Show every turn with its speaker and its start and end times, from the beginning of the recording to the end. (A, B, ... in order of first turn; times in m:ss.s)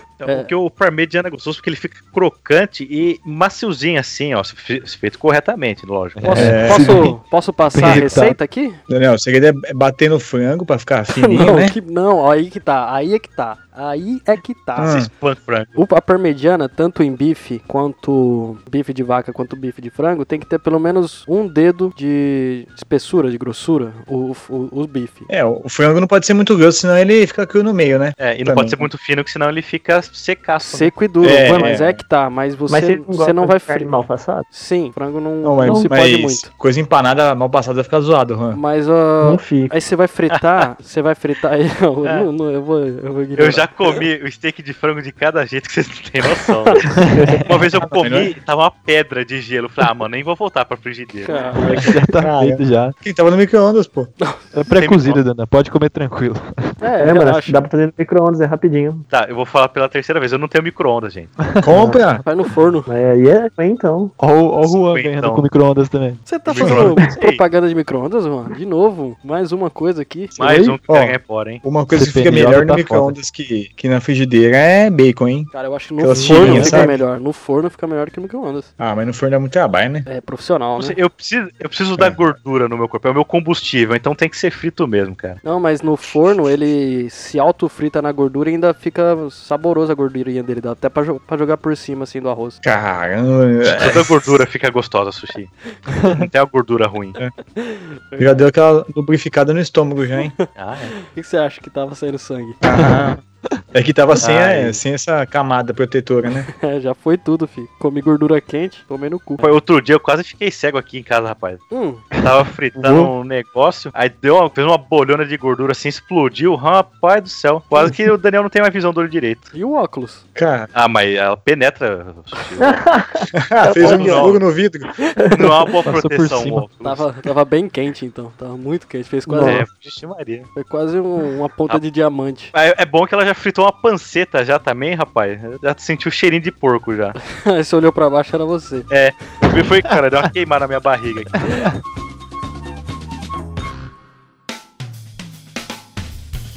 0:00.2-0:06.6 A
0:00.3-0:00.5 B
0:06.2-0:07.2 C
0:06.2-0:08.8 B
0:06.4-0:07.1 D
0:07.7-0:08.4 C
0:08.9-0:11.8 D
0:11.2-0:15.1 B
0:14.8-0:15.1 D
0:15.0-0:15.8 A
0:15.8-0:25.3 B
0:25.3-0:28.8 D
0:28.2-0:31.0 A
0:30.6-0:33.9 B
0:31.2-0:32.0 D
0:31.4-0:31.7 E
0:32.7-0:34.5 E
0:34.5-0:36.5 B
0:35.4-0:38.6 D
0:35.6-0:35.9 E
0:38.5-0:44.0 B
0:39.2-0:39.8 E
0:40.3-0:40.6 A
0:43.4-0:46.9 A
0:46.3-0:46.8 B
0:46.9-0:47.5 C
0:47.1-0:47.6 E
0:47.5-0:51.4 A
0:47.8-0:48.3 D
0:51.2-0:51.9 B
0:51.6-0:53.0 C
0:52.2-0:54.1 D
0:54.2-0:54.5 B
0:54.5-0:56.6 C
0:54.7-0:55.2 A
0:56.8-0:57.6 B
0:57.0-0:59.1 E
0:59.1-1:01.3 A
1:01.4-1:02.1 C
1:01.6-1:02.2 D
1:02.2-1:02.9 B
1:02.9-1:04.1 E
1:04.2-1:07.1 C
1:04.6-1:05.4 A
1:06.3-1:10.4 B
1:06.5-1:07.4 A
1:06.6-1:06.9 D
1:10.4-1:11.6 A
1:10.5-1:10.7 C
1:10.9-1:17.0 D
1:11.9-1:13.2 C
1:15.5-1:18.7 B
1:16.2-1:16.8 C
1:18.8-1:20.1 D
1:20.1-1:21.0 B
1:20.8-1:25.4 A
1:22.0-1:22.3 D
1:25.4-1:32.6 B
1:32.6-1:34.4 D
1:33.7-1:35.5 A
1:36.1-1:37.2 A
1:37.6-1:38.5 B
1:38.2-1:40.4 D
1:40.5-1:40.9 A
1:41.0-1:42.6 B
1:42.6-1:43.2 D
1:42.7-1:43.6 C
1:43.7-1:46.5 D
1:44.2-1:44.8 A
1:46.5-1:49.5 B
1:49.4-1:51.6 A
1:51.7-1:52.0 B
1:52.1-1:53.1 C
1:52.2-1:59.5 A
1:59.5-2:00.2 B
2:00.4-2:00.7 D
2:00.7-2:02.8 A
2:02.6-2:04.4 E
2:03.5-2:04.9 D
2:03.8-2:04.4 A
2:05.1-2:05.5 B
2:05.2-2:05.5 E
2:05.3-2:07.0 A
2:05.8-2:06.7 C
2:06.8-2:09.7 B
2:09.3-2:09.7 E
2:09.4-2:10.5 A
2:10.6-2:12.5 B
2:12.5-2:17.2 A
2:17.3-2:18.9 B
2:18.9-2:21.5 A
2:21.4-2:21.8 C